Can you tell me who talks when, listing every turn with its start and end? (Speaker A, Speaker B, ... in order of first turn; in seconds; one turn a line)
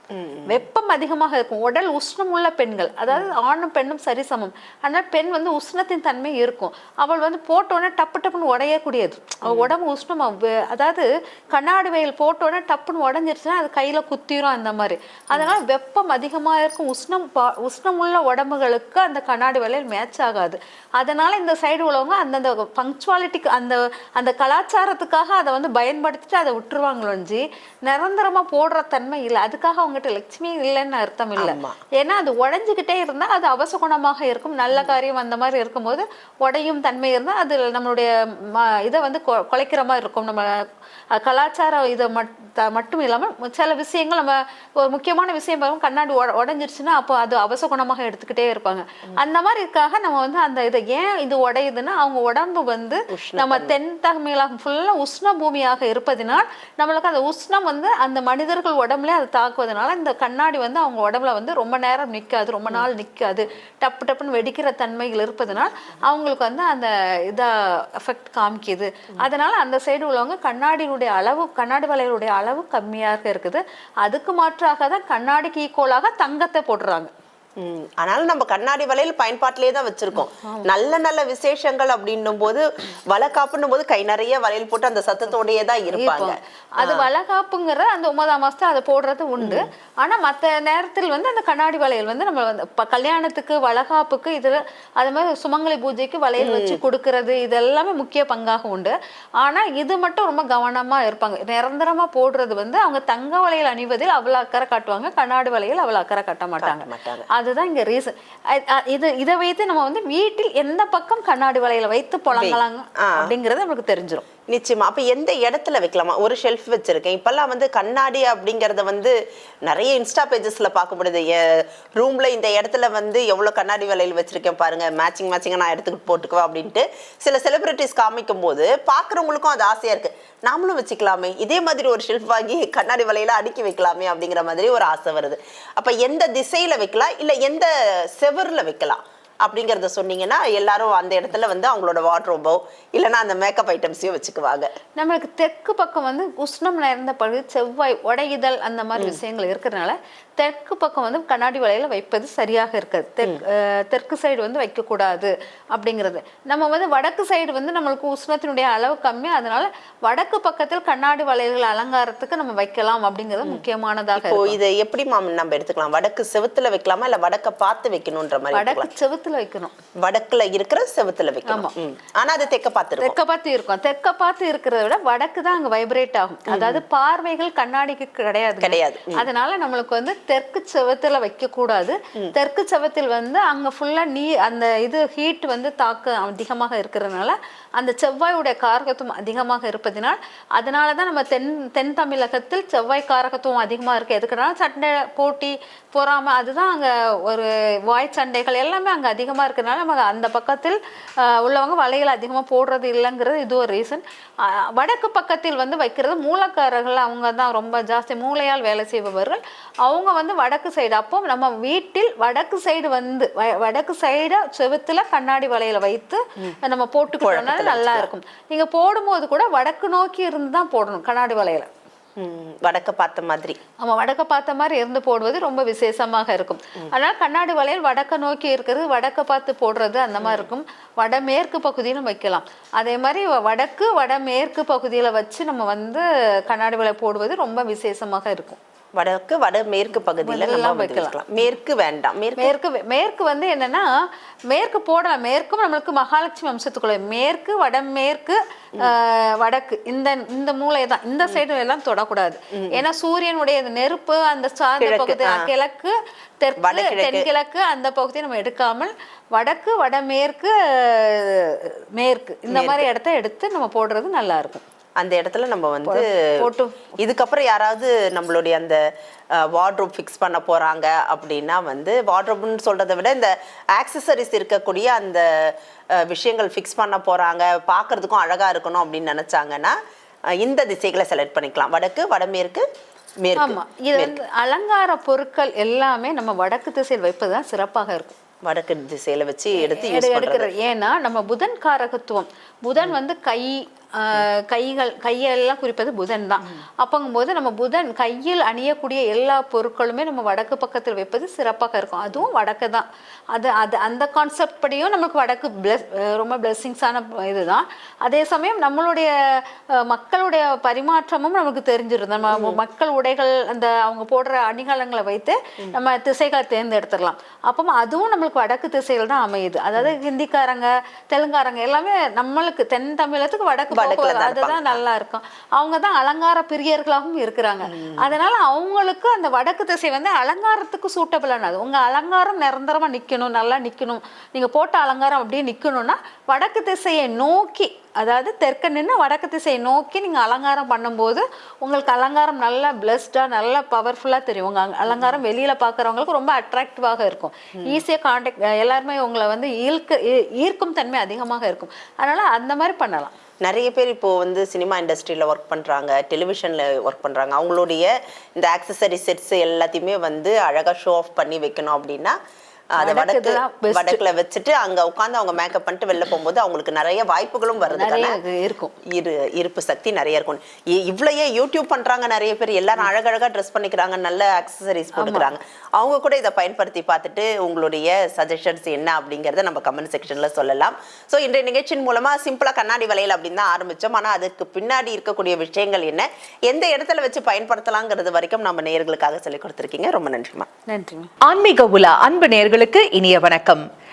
Speaker A: 0.1-0.6
Speaker B: 0.5-40.5
Speaker A: 9.5-9.7
Speaker A: 31.4-31.8
Speaker B: 41.1-77.1
Speaker A: 53.1-53.8
Speaker A: 77.6-87.1
Speaker B: 80.4-80.7
Speaker B: 86.0-114.2
Speaker A: 89.4-89.7
Speaker A: 96.4-96.8
Speaker A: 106.6-107.3
Speaker A: 112.3-113.3
Speaker A: 114.5-144.7
Speaker B: 145.0-164.6
Speaker A: 164.2-168.9
Speaker B: 168.5-169.7
Speaker A: 170.0-173.2
Speaker B: 171.5-171.7
Speaker B: 173.0-221.7
Speaker A: 176.5-176.8
Speaker A: 178.6-179.3
Speaker A: 217.2-218.1
Speaker A: 222.2-223.6
Speaker B: 223.8-238.6
Speaker A: 230.2-230.5
Speaker A: 239.0-242.6
Speaker B: 240.2-241.2
Speaker B: 242.4-243.9
Speaker B: 244.5-264.6
Speaker A: 252.5-252.8
Speaker A: 254.8-255.5
Speaker A: 256.6-257.3
Speaker A: 262.5-262.9
Speaker A: 265.0-266.1
Speaker B: 265.9-266.9
Speaker A: 267.0-268.8
Speaker A: 269.4-279.8
Speaker A: 280.4-282.6
Speaker A: 283.2-284.2
Speaker B: 283.4-288.2
Speaker A: 288.4-290.5
Speaker B: 289.6-353.1
Speaker A: 312.3-312.6
Speaker A: 323.7-324.8
Speaker A: 327.7-328.0
Speaker A: 344.9-345.2
Speaker A: 353.4-362.2
Speaker A: 362.8-368.2
Speaker B: 362.8-364.1
Speaker B: 367.7-368.8
Speaker A: 368.9-390.5
Speaker B: 375.0-375.3
Speaker B: 390.7-391.1
Speaker C: 391.3-393.6